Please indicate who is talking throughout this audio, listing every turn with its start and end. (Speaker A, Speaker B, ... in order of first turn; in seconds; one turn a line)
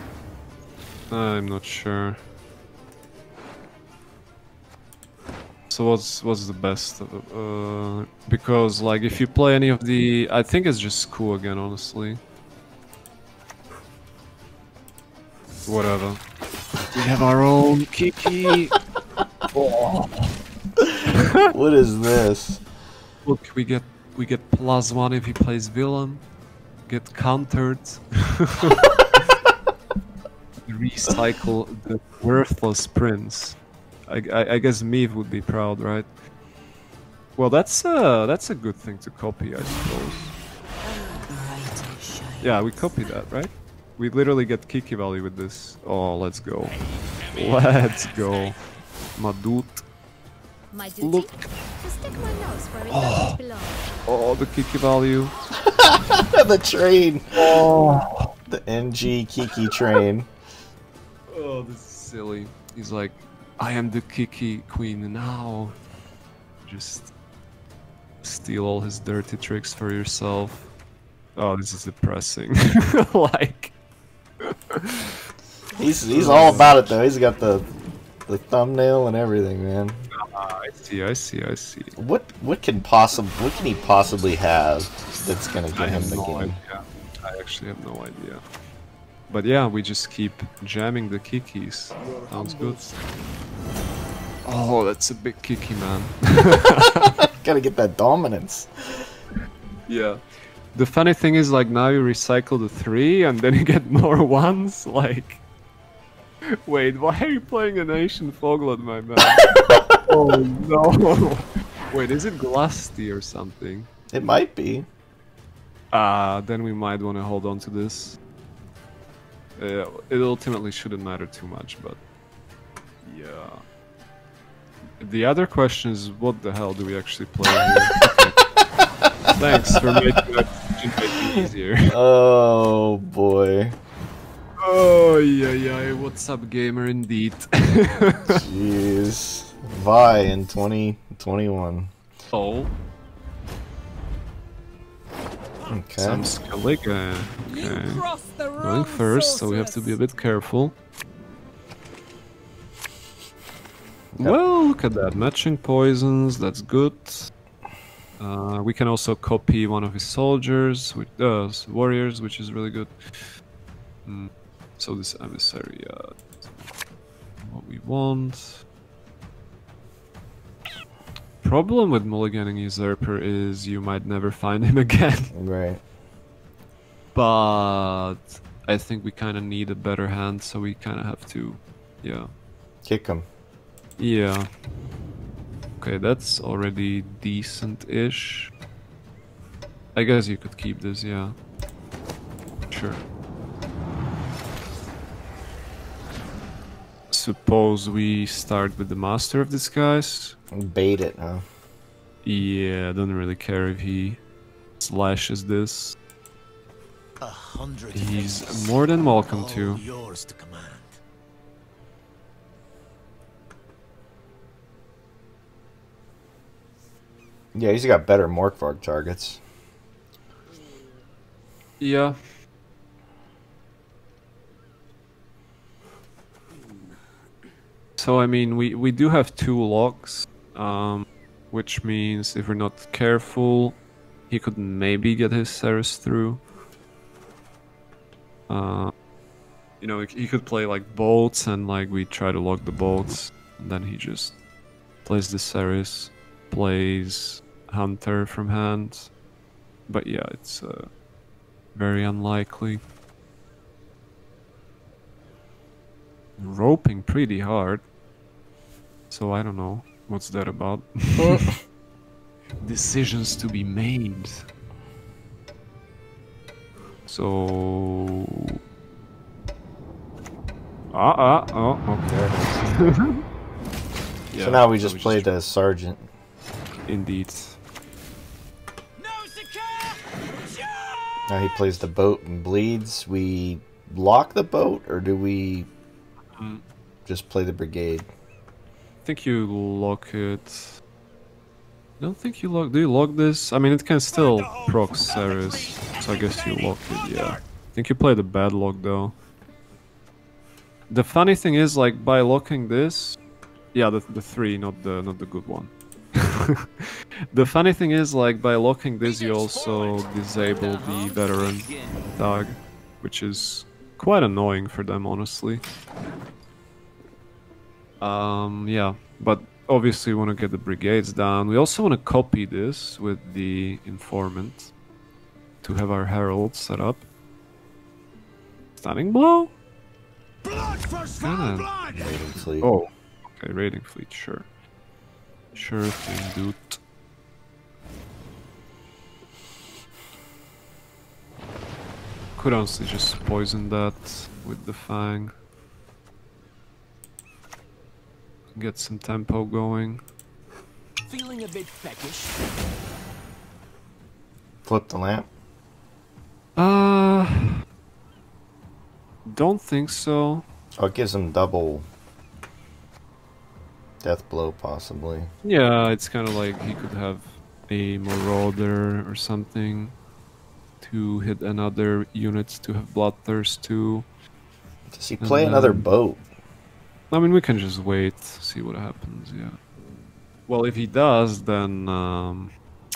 Speaker A: 1.1-2.2
Speaker A: 5.7-12.2
Speaker A: 15.7-16.2
Speaker A: 16.9-18.8
Speaker A: 19.5-20.4
Speaker B: 20.8-22.6
Speaker A: 23.2-26.2
Speaker A: 26.9-29.2
Speaker A: 30.7-36.1
Speaker A: 37.4-40.3
Speaker C: 39.6-43.0
Speaker A: 42.4-46.8
Speaker C: 46.7-48.6
Speaker A: 47.3-48.6
Speaker A: 49.1-49.9
Speaker D: 50.7-53.9
Speaker A: 51.0-51.3
Speaker A: 52.9-53.4
Speaker A: 54.1-55.4
Speaker B: 55.7-57.7
Speaker A: 57.3-58.3
Speaker B: 58.5-60.3
Speaker A: 61.3-65.8
Speaker A: 66.7-67.1
Speaker A: 68.2-70.7
Speaker A: 71.4-73.7
Speaker A: 74.4-75.1
Speaker D: 75.7-76.6
Speaker B: 75.8-77.7
Speaker A: 76.1-77.0
Speaker B: 78.3-80.0
Speaker A: 80.1-82.0
Speaker B: 82.0-86.6
Speaker A: 85.8-88.4
Speaker A: 89.3-92.8
Speaker C: 92.1-93.0
Speaker A: 94.5-97.2
Speaker B: 97.2-99.1
Speaker A: 99.9-100.2
Speaker A: 100.7-105.4
Speaker A: 106.7-109.5
Speaker B: 109.4-110.0
Speaker A: 110.1-113.9
Speaker B: 114.1-114.9
Speaker A: 115.9-118.2
Speaker A: 119.6-122.0
Speaker A: 123.0-123.6
Speaker A: 125.0-128.4
Speaker B: 129.3-129.8
Speaker A: 129.4-132.0
Speaker B: 131.2-133.8
Speaker A: 134.6-138.4
Speaker B: 138.3-141.9
Speaker A: 142.3-142.7
Speaker B: 145.7-146.3
Speaker A: 146.0-150.8
Speaker A: 154.2-157.3
Speaker A: 158.2-163.3
Speaker A: 164.1-166.7
Speaker A: 167.4-168.6
Speaker A: 171.4-175.3
Speaker B: 175.3-175.8
Speaker A: 177.1-182.3
Speaker B: 182.8-183.3
Speaker A: 184.0-184.5
Speaker A: 185.8-188.5
Speaker A: 189.9-191.4
Speaker A: 192.7-193.0
Speaker A: 197.1-200.4
Speaker B: 200.5-201.4
Speaker A: 202.2-204.2
Speaker A: 204.8-206.0
Speaker C: 207.2-211.0
Speaker A: 207.9-209.8
Speaker B: 217.5-219.4
Speaker A: 221.8-222.2
Speaker A: 228.0-233.8
Speaker A: 234.3-236.4
Speaker A: 238.5-238.9
Speaker A: 239.8-244.4
Speaker A: 245.0-249.1
Speaker A: 249.9-250.9
Speaker A: 251.7-252.8
Speaker A: 256.4-257.9
Speaker A: 259.1-261.5
Speaker B: 261.2-261.6
Speaker A: 262.6-264.5
Speaker A: 267.1-268.5
Speaker A: 270.9-273.2
Speaker B: 272.1-273.0
Speaker A: 274.3-275.3
Speaker B: 274.4-276.1
Speaker A: 276.9-277.6
Speaker C: 279.0-281.2
Speaker B: 281.3-285.7
Speaker A: 286.4-286.6
Speaker B: 287.1-288.1
Speaker A: 289.1-290.8
Speaker A: 292.0-299.2
Speaker C: 294.2-297.2
Speaker A: 300.9-303.2
Speaker A: 303.7-315.6
Speaker C: 309.0-312.1
Speaker A: 318.0-324.7
Speaker A: 325.6-327.1
Speaker A: 328.8-329.5
Speaker C: 330.4-332.2
Speaker A: 331.2-331.7
Speaker B: 331.9-332.7
Speaker A: 332.6-334.5
Speaker A: 335.5-336.8
Speaker A: 342.4-345.3
Speaker A: 348.6-350.0
Speaker C: 351.1-352.4
Speaker B: 354.7-355.3
Speaker A: 356.6-357.5
Speaker A: 359.2-360.4
Speaker B: 360.8-361.9
Speaker B: 364.0-365.3
Speaker A: 365.4-370.0
Speaker A: 370.8-374.1
Speaker B: 374.9-376.2
Speaker A: 375.2-375.9
Speaker A: 377.1-379.6
Speaker A: 380.5-382.6